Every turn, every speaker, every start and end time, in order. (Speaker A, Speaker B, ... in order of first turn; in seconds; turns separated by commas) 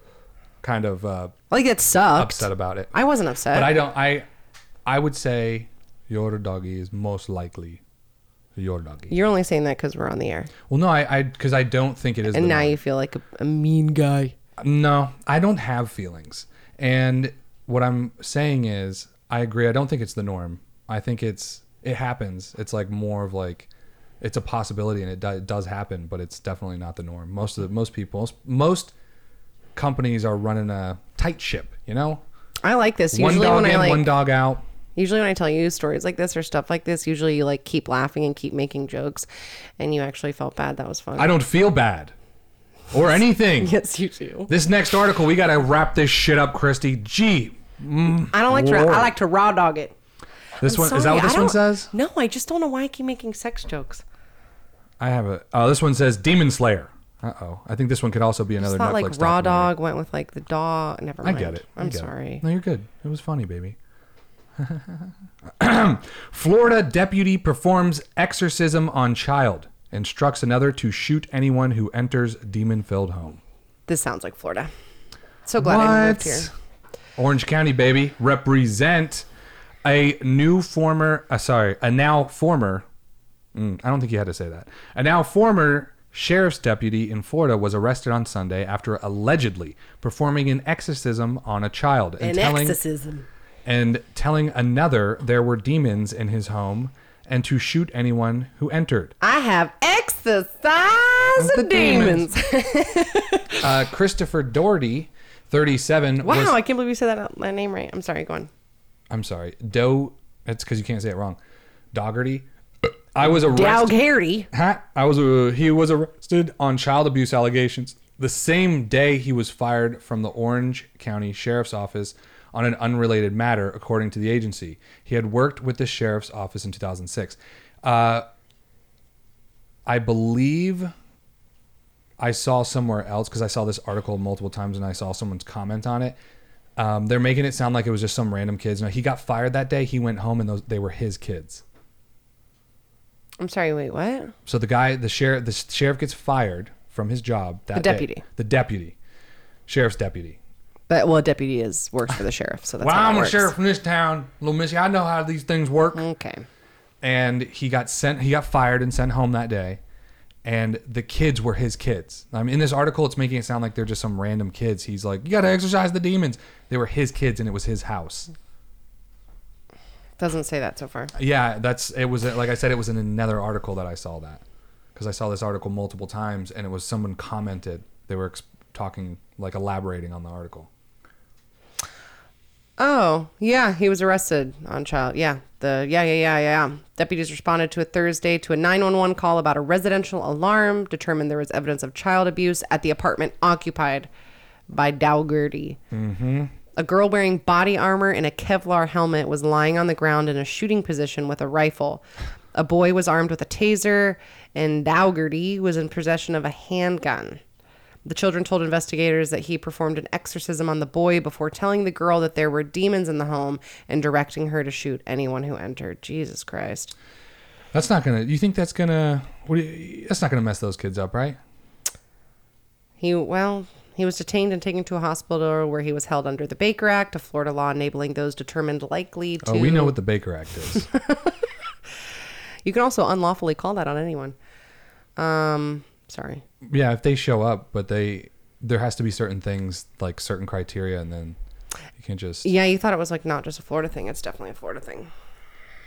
Speaker A: 0.6-1.4, Speaker B: 1.5-3.7, Speaker A: 2.1-2.9, Speaker A: 3.5-4.2, Speaker A: 4.8-7.8, Speaker A: 8.6-9.1, Speaker B: 9.1-10.5, Speaker A: 10.7-12.8, Speaker B: 12.3-14.3, Speaker A: 14.6-23.7, Speaker A: 24.2-28.9, Speaker A: 29.8-32.2, Speaker B: 32.6-34.1, Speaker A: 33.1-34.6, Speaker B: 35.0-39.2, Speaker B: 39.8-41.3, Speaker A: 41.1-42.1, Speaker A: 42.9-43.7, Speaker B: 43.6-44.5, Speaker A: 44.5-49.1, Speaker B: 48.3-49.9, Speaker A: 50.6-51.9, Speaker B: 50.6-54.0, Speaker A: 55.0-59.7, Speaker B: 58.6-62.4, Speaker A: 61.2-63.8, Speaker A: 64.6-73.4, Speaker B: 73.9-74.7, Speaker B: 75.5-76.5, Speaker A: 75.6-76.5, Speaker A: 77.2-79.2, Speaker A: 79.8-82.8, Speaker A: 83.5-92.8, Speaker B: 92.2-93.2, Speaker A: 93.6-99.1, Speaker B: 99.2-103.6, Speaker A: 101.4-102.3, Speaker A: 103.6-106.5, Speaker B: 106.2-108.5, Speaker A: 109.1-111.4, Speaker A: 111.9-113.9, Speaker B: 113.2-114.5, Speaker A: 114.5-128.2, Speaker A: 129.8-130.9, Speaker A: 132.2-136.2, Speaker A: 136.8-141.6, Speaker B: 143.4-144.3, Speaker A: 144.4-148.9, Speaker B: 147.7-148.2, Speaker A: 149.7-150.4, Speaker B: 150.9-153.5, Speaker A: 152.8-156.0, Speaker B: 155.9-156.4, Speaker A: 157.0-159.8, Speaker A: 160.4-168.3, Speaker B: 170.2-171.1, Speaker A: 171.1-174.4, Speaker A: 174.9-180.7, Speaker B: 182.8-194.1, Speaker B: 194.7-195.8, Speaker A: 195.9-196.5, Speaker B: 196.8-202.0, Speaker B: 202.5-207.4, Speaker B: 208.0-216.9, Speaker A: 217.7-221.4, Speaker B: 223.0-229.9, Speaker A: 229.4-230.9, Speaker B: 230.7-231.3, Speaker B: 232.6-234.3, Speaker B: 235.2-236.4, Speaker A: 236.6-241.4, Speaker A: 242.0-242.5, Speaker B: 242.4-245.1